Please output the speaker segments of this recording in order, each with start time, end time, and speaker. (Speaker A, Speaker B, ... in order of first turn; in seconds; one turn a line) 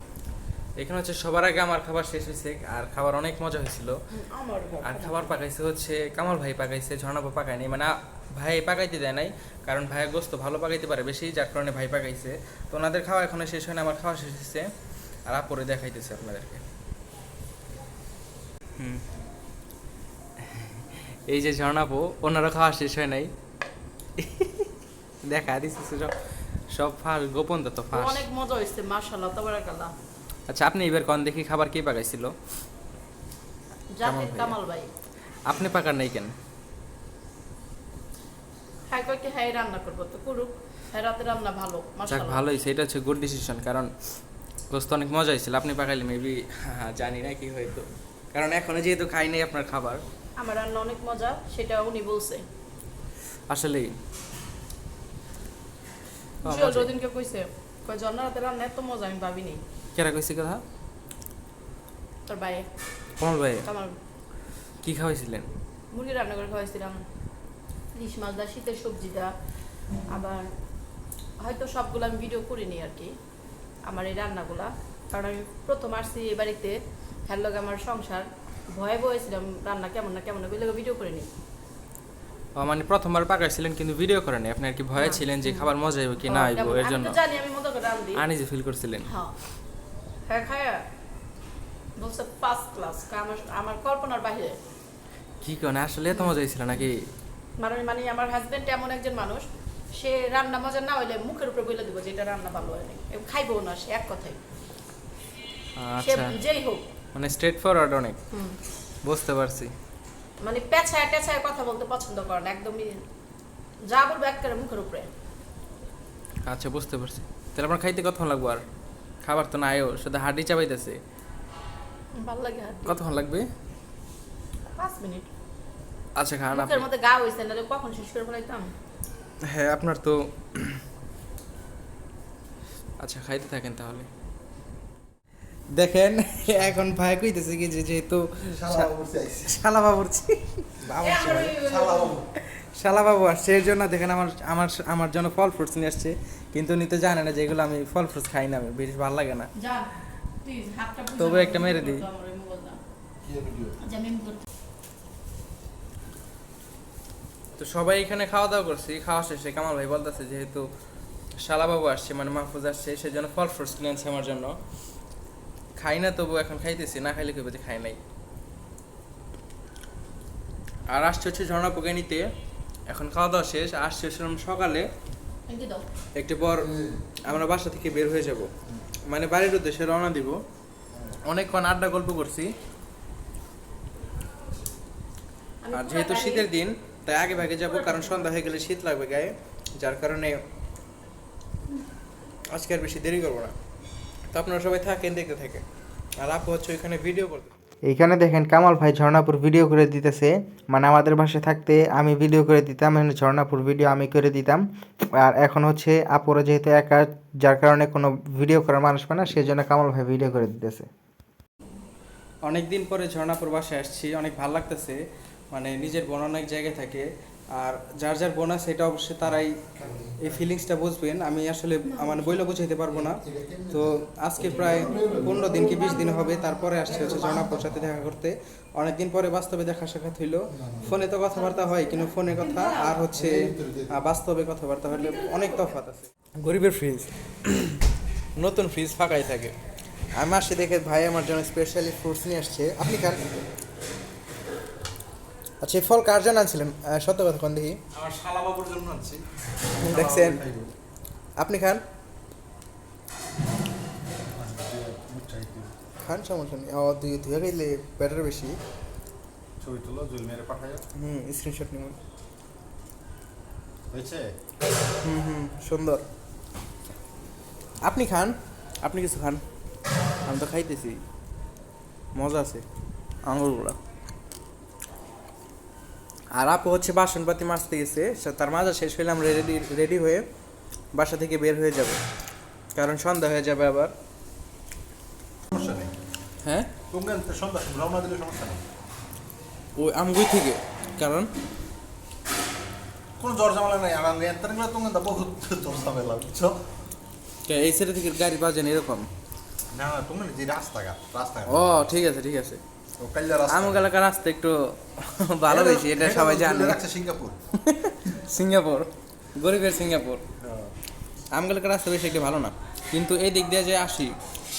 Speaker A: 0.8-4.0
Speaker B: 4.1-5.3
Speaker A: 4.8-14.7
Speaker A: 15.3-16.6
Speaker A: 18.8-19.0
Speaker A: 20.5-23.3
Speaker A: 24.2-24.7
Speaker A: 25.2-26.1
Speaker A: 26.7-28.2
Speaker B: 27.9-29.9
Speaker A: 30.5-32.3
Speaker B: 33.9-34.9
Speaker A: 34.0-34.6
Speaker A: 35.5-36.3
Speaker B: 38.9-42.4
Speaker A: 42.1-43.9
Speaker A: 44.7-50.0
Speaker B: 50.4-52.4
Speaker A: 53.5-53.9
Speaker B: 56.4-59.6
Speaker A: 56.4-56.9
Speaker A: 59.9-60.6
Speaker B: 62.3-62.6
Speaker A: 63.2-63.7
Speaker B: 63.6-63.9
Speaker A: 64.8-65.5
Speaker B: 65.9-67.0
Speaker B: 67.9-69.3
Speaker B: 70.1-70.5
Speaker B: 71.4-73.1
Speaker B: 73.8-76.8
Speaker B: 77.3-81.3
Speaker A: 82.6-87.2
Speaker B: 85.0-85.7
Speaker B: 86.2-88.2
Speaker A: 88.1-89.1
Speaker B: 89.1-89.3
Speaker B: 90.3-90.8
Speaker B: 92.0-94.6
Speaker A: 95.4-97.1
Speaker B: 97.6-104.4
Speaker A: 105.8-106.3
Speaker B: 106.0-106.8
Speaker A: 107.1-108.2
Speaker B: 108.3-108.6
Speaker A: 109.0-109.7
Speaker B: 110.4-113.0
Speaker B: 113.9-115.1
Speaker A: 116.4-118.6
Speaker A: 119.2-121.0
Speaker B: 122.2-123.0
Speaker A: 122.8-123.5
Speaker B: 124.7-125.3
Speaker A: 126.2-126.9
Speaker B: 126.5-128.7
Speaker A: 129.4-130.8
Speaker A: 133.0-134.1
Speaker A: 135.7-138.9
Speaker C: 138.4-139.6
Speaker A: 139.4-141.6
Speaker B: 141.0-142.2
Speaker C: 141.6-142.3
Speaker A: 142.5-149.5
Speaker B: 149.6-149.9
Speaker B: 150.4-152.8
Speaker A: 151.2-152.0
Speaker C: 153.2-153.8
Speaker B: 153.8-154.4
Speaker A: 157.6-160.7
Speaker A: 161.4-164.6
Speaker A: 165.8-168.0
Speaker A: 170.9-172.3
Speaker A: 172.9-174.8
Speaker B: 175.5-175.8
Speaker A: 176.2-176.7
Speaker C: 176.6-177.0
Speaker A: 177.2-178.5
Speaker A: 179.1-180.4
Speaker C: 180.9-181.2
Speaker A: 181.2-182.5
Speaker B: 185.6-186.5
Speaker A: 185.7-190.4
Speaker A: 192.5-193.5
Speaker A: 194.3-195.6
Speaker A: 196.2-204.6
Speaker A: 205.2-210.9
Speaker A: 212.4-215.0
Speaker A: 215.5-219.6
Speaker C: 219.7-220.3
Speaker A: 220.2-223.2
Speaker B: 222.0-222.3
Speaker C: 222.9-225.9
Speaker A: 223.7-237.8
Speaker B: 224.6-227.5
Speaker C: 226.9-228.0
Speaker C: 230.5-230.9
Speaker B: 231.3-233.0
Speaker C: 233.1-233.9
Speaker B: 234.9-235.7
Speaker A: 238.4-239.5
Speaker A: 240.1-243.3
Speaker A: 245.6-247.8
Speaker C: 247.9-249.2
Speaker C: 249.8-250.7
Speaker A: 249.8-250.4
Speaker A: 251.4-251.8
Speaker C: 254.3-255.7
Speaker A: 256.0-258.6
Speaker C: 259.6-260.8
Speaker A: 260.9-262.0
Speaker C: 263.9-264.3
Speaker A: 265.0-266.0
Speaker A: 267.8-269.4
Speaker A: 270.2-271.0
Speaker A: 272.1-272.6
Speaker A: 273.3-273.8
Speaker A: 276.3-280.2
Speaker A: 280.9-282.0
Speaker A: 282.7-283.9
Speaker C: 285.5-285.9
Speaker A: 286.4-286.7
Speaker C: 286.9-288.6
Speaker A: 289.8-291.3
Speaker C: 293.2-296.6
Speaker A: 297.4-299.1
Speaker C: 299.7-301.9
Speaker A: 301.5-302.6
Speaker C: 303.0-303.9
Speaker A: 303.5-306.8
Speaker C: 305.5-307.4
Speaker A: 307.6-310.2
Speaker C: 310.4-310.7
Speaker A: 311.3-314.1